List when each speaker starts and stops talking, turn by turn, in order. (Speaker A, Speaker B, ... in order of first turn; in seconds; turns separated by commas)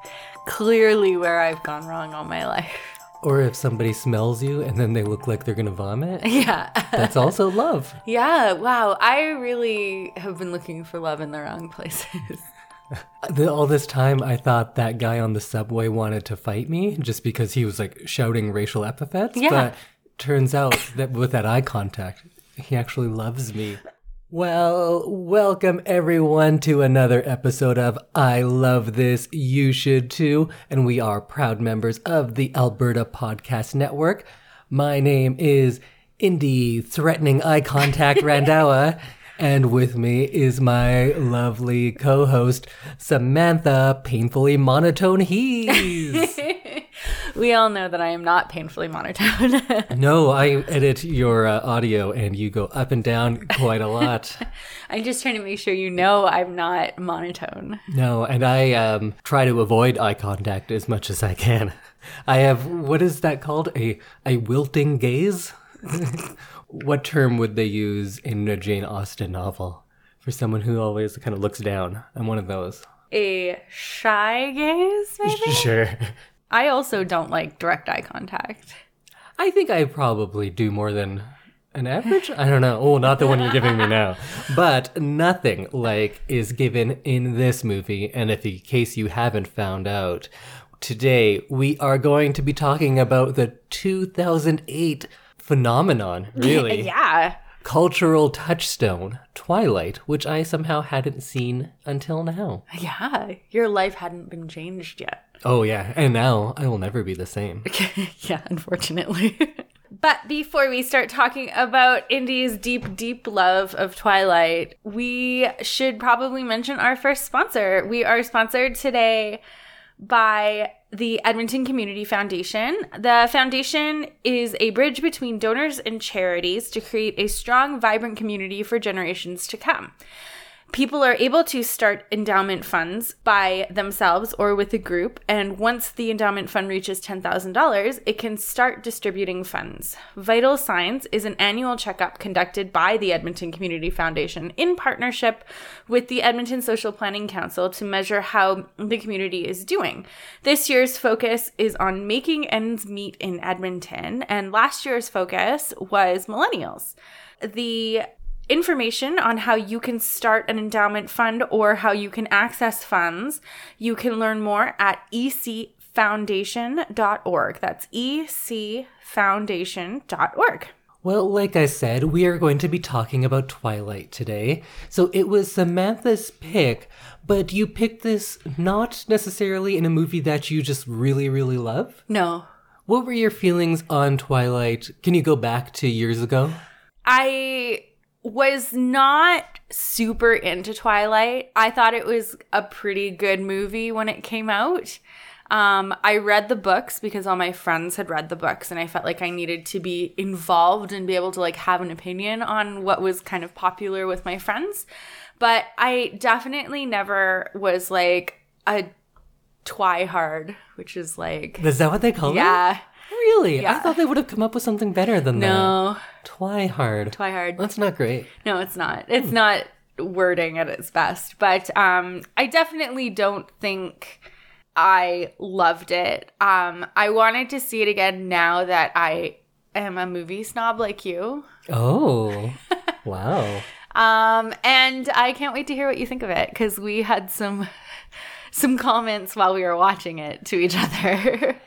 Speaker A: 0.5-2.9, Speaker B: 3.2-6.4, Speaker A: 6.2-7.3, Speaker B: 6.9-8.0, Speaker A: 8.1-12.4, Speaker B: 13.2-23.8, Speaker A: 19.4-19.7, Speaker B: 24.3-46.4, Speaker A: 45.7-49.9, Speaker B: 49.9-54.5, Speaker A: 54.9-57.8, Speaker B: 57.9-72.9, Speaker A: 73.1-75.7, Speaker B: 75.2-76.1, Speaker A: 76.5-78.8, Speaker B: 79.4-96.9, Speaker A: 96.4-97.4, Speaker B: 97.6-102.6, Speaker A: 102.7-105.2, Speaker B: 105.4-107.7, Speaker A: 107.7-119.4, Speaker A: 120.0-129.9, Speaker A: 130.7-170.7, Speaker B: 171.0-182.0, Speaker A: 182.1-182.5, Speaker B: 182.9-186.6, Speaker A: 187.1-204.9, Speaker A: 205.4-208.9, Speaker A: 209.6-211.7, Speaker B: 211.6-218.3, Speaker A: 212.2-212.8, Speaker A: 213.6-213.9, Speaker A: 215.3-216.1, Speaker A: 217.1-217.6, Speaker A: 218.4-224.2, Speaker A: 224.8-231.4, Speaker B: 231.7-233.7, Speaker A: 233.9-237.7, Speaker A: 238.5-241.6